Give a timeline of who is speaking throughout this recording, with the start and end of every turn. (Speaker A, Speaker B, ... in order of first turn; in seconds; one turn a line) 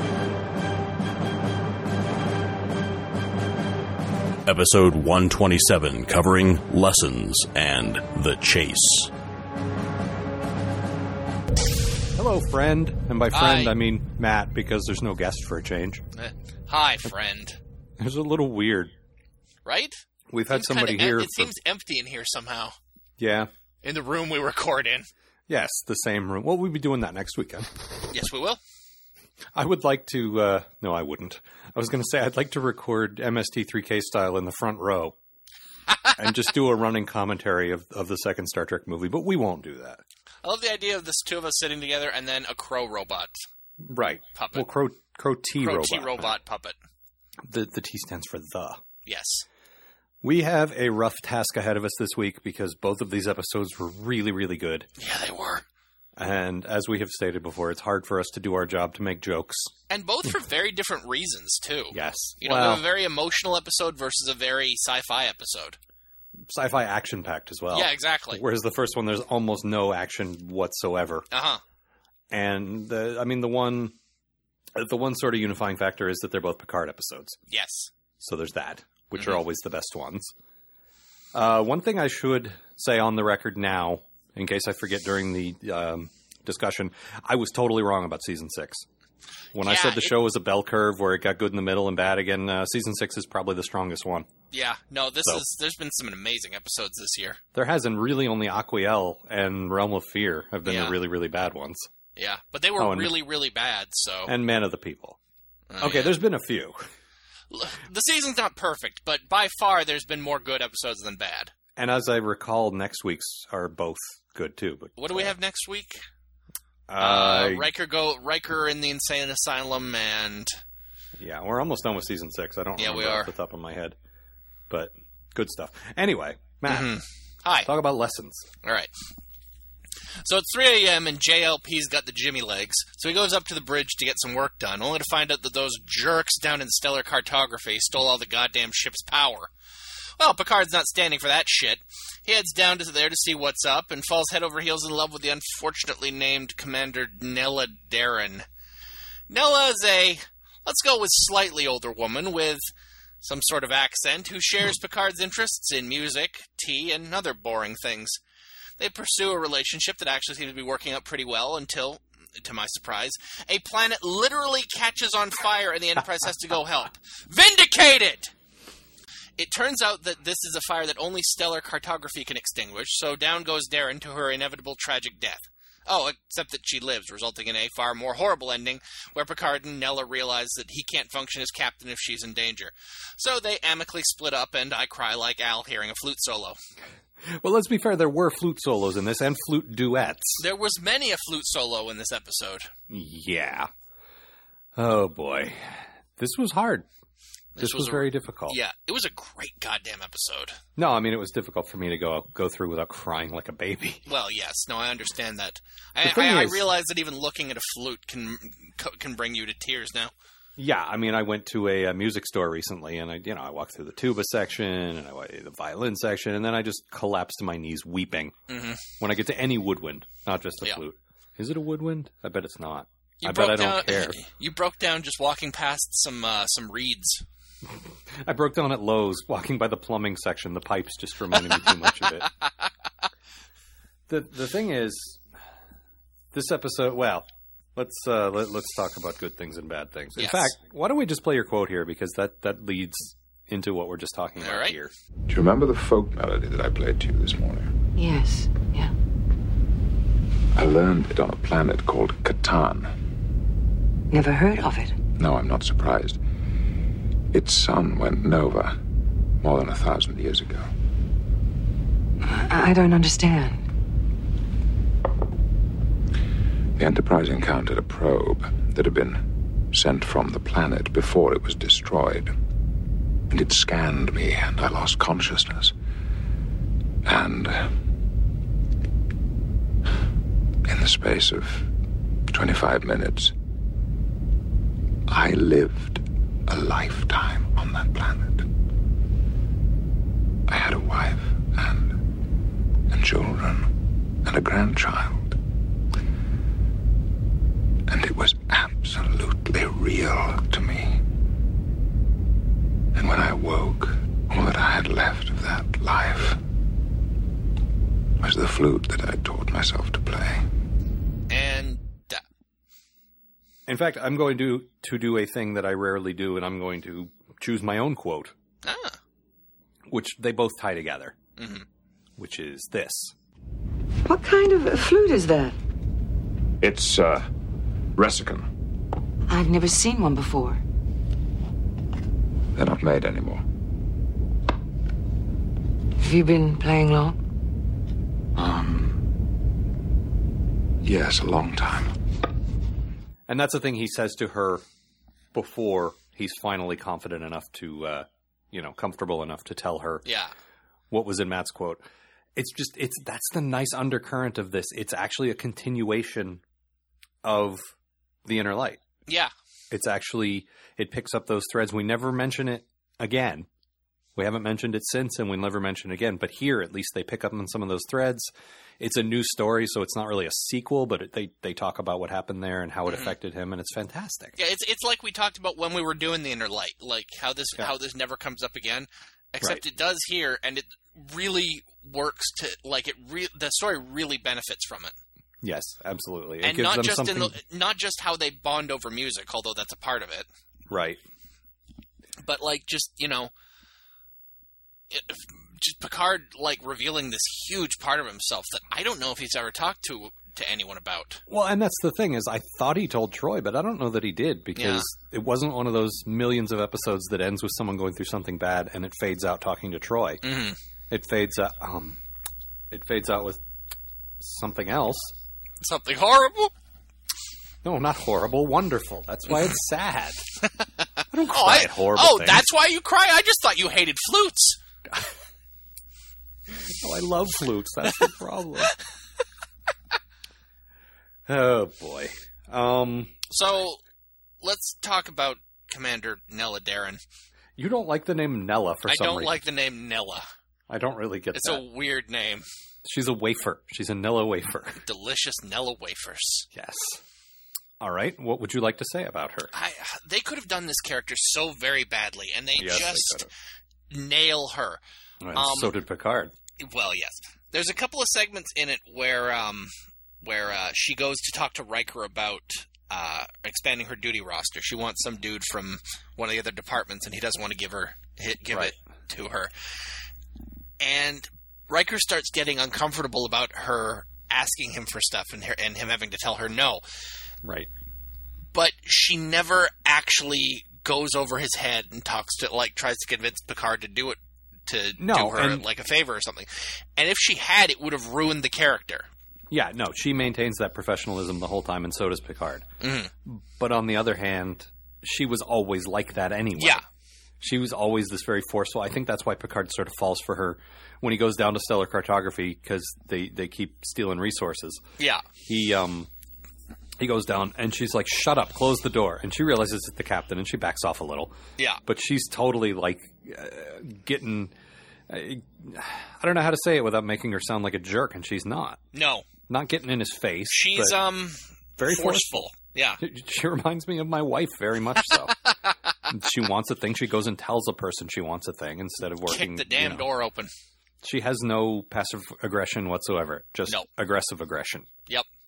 Speaker A: 4.4-9.1
Speaker B: 12.1-16.0
Speaker C: 13.3-13.8
Speaker C: 16.1-17.6
Speaker B: 18.0-18.9
Speaker C: 19.6-20.0
Speaker B: 20.3-21.5
Speaker C: 20.5-22.7
Speaker B: 23.2-23.5
Speaker C: 23.8-25.1
Speaker B: 25.5-27.7
Speaker C: 28.1-28.6
Speaker B: 29.5-35.1
Speaker B: 36.1-40.0
Speaker C: 40.4-43.4
Speaker B: 43.8-46.4
Speaker C: 44.3-44.7
Speaker C: 45.6-46.7
Speaker B: 47.4-48.8
Speaker C: 49.0-49.4
Speaker B: 50.2-54.9
Speaker C: 55.0-55.6
Speaker B: 56.2-59.7
Speaker C: 59.9-65.8
Speaker B: 61.9-62.8
Speaker B: 66.5-71.3
Speaker C: 67.7-68.4
Speaker C: 71.3-71.6
Speaker B: 72.3-73.9
Speaker B: 74.8-77.4
Speaker C: 77.5-77.9
Speaker B: 78.2-80.3
Speaker C: 79.1-79.4
Speaker B: 81.3-88.8
Speaker B: 89.5-94.3
Speaker C: 89.6-90.2
Speaker C: 94.5-97.4
Speaker B: 97.5-101.9
Speaker C: 100.6-101.0
Speaker C: 102.2-104.3
Speaker B: 102.8-103.2
Speaker B: 104.3-105.2
Speaker C: 105.7-106.2
Speaker B: 105.8-106.8
Speaker C: 107.5-111.5
Speaker B: 111.8-115.3
Speaker C: 115.0-116.0
Speaker B: 116.9-117.7
Speaker C: 117.0-120.5
Speaker B: 121.2-124.0
Speaker C: 122.8-123.3
Speaker B: 124.7-127.0
Speaker C: 126.7-127.7
Speaker B: 127.6-128.5
Speaker C: 128.6-128.9
Speaker C: 130.2-139.5
Speaker C: 140.2-148.4
Speaker C: 149.3-152.6
Speaker C: 153.2-158.2
Speaker C: 158.8-168.3
Speaker C: 169.4-186.6
Speaker B: 187.2-190.4
Speaker C: 190.4-192.7
Speaker B: 192.9-193.7
Speaker B: 194.8-195.6
Speaker B: 196.2-196.8
Speaker C: 197.6-200.6
Speaker B: 197.6-198.6
Speaker B: 200.8-204.0
Speaker C: 204.1-210.1
Speaker B: 206.0-206.7
Speaker B: 210.6-218.3
Speaker C: 218.5-218.8
Speaker B: 218.9-224.2
Speaker C: 223.2-227.2
Speaker B: 228.1-232.3
Speaker B: 234.1-235.2
Speaker B: 236.3-244.9
Speaker C: 240.2-240.5
Speaker C: 244.4-244.8
Speaker D: 245.3-247.7
Speaker E: 248.0-248.9
Speaker D: 250.5-252.9
Speaker E: 254.1-254.9
Speaker D: 255.2-256.2
Speaker D: 257.3-258.7
Speaker D: 259.4-260.6
Speaker E: 262.2-263.6
Speaker D: 266.8-269.2
Speaker D: 269.7-272.3
Speaker D: 273.3-275.7
Speaker D: 277.1-277.7
Speaker D: 280.7-281.6
Speaker D: 282.3-283.3
Speaker D: 285.1-288.4
Speaker D: 290.5-291.9
Speaker D: 292.9-293.6
Speaker D: 294.2-295.4
Speaker D: 297.9-301.0
Speaker D: 302.9-306.4
Speaker D: 308.2-310.4
Speaker C: 311.3-312.2
Speaker B: 313.7-318.3
Speaker C: 318.6-319.0
Speaker B: 319.9-321.1
Speaker C: 321.4-321.6
Speaker B: 322.2-323.1
Speaker E: 324.0-325.5
Speaker D: 326.6-327.3
Speaker D: 327.9-328.5
Speaker E: 329.3-330.6
Speaker D: 332.5-333.4
Speaker E: 336.0-337.1
Speaker D: 338.4-339.0
Speaker D: 340.8-341.9
Speaker B: 343.3-344.6
Speaker B: 345.3-350.0
Speaker C: 350.0-350.3
Speaker B: 350.9-351.8
Speaker B: 352.4-356.4
Speaker B: 357.2-357.6
Speaker B: 358.2-358.8
Speaker B: 359.7-363.5
Speaker B: 364.1-374.4
Speaker C: 372.9-373.1
Speaker C: 374.4-384.9
Speaker B: 385.4-387.3
Speaker C: 386.4-390.2
Speaker B: 390.7-391.0
Speaker C: 392.2-393.3
Speaker C: 394.9-401.2
Speaker B: 401.3-410.2
Speaker C: 404.5-404.9
Speaker C: 410.2-410.6
Speaker B: 410.9-412.0
Speaker B: 412.7-413.4
Speaker B: 414.2-415.1
Speaker C: 415.6-416.5
Speaker B: 417.6-420.2
Speaker B: 421.1-422.4
Speaker C: 421.3-424.6
Speaker B: 426.5-428.7
Speaker B: 431.2-433.1
Speaker C: 433.3-433.8
Speaker C: 434.4-437.0
Speaker B: 437.6-439.4
Speaker C: 438.9-440.2
Speaker B: 440.7-441.6
Speaker C: 441.3-442.4
Speaker B: 442.8-444.8
Speaker C: 444.8-446.5
Speaker B: 446.5-447.0
Speaker B: 447.8-449.5
Speaker C: 449.5-453.3
Speaker B: 452.6-453.3
Speaker C: 453.9-454.8
Speaker B: 455.2-456.3
Speaker C: 455.3-455.7
Speaker C: 456.6-459.7
Speaker C: 460.2-469.5
Speaker C: 470.8-476.8
Speaker B: 477.4-477.7
Speaker C: 478.5-489.1
Speaker B: 485.0-485.6
Speaker B: 489.5-492.6
Speaker C: 492.8-493.1
Speaker B: 493.2-496.8
Speaker C: 496.6-496.8
Speaker B: 497.4-504.8
Speaker C: 505.0-505.2
Speaker B: 505.4-506.1
Speaker B: 507.0-511.3
Speaker B: 511.9-514.5
Speaker B: 515.1-518.8
Speaker C: 518.9-519.2
Speaker B: 519.5-521.0
Speaker C: 520.5-523.0
Speaker B: 521.8-522.5
Speaker B: 523.0-525.4
Speaker C: 525.0-525.7
Speaker B: 526.1-530.1
Speaker C: 529.3-530.5
Speaker B: 531.0-534.9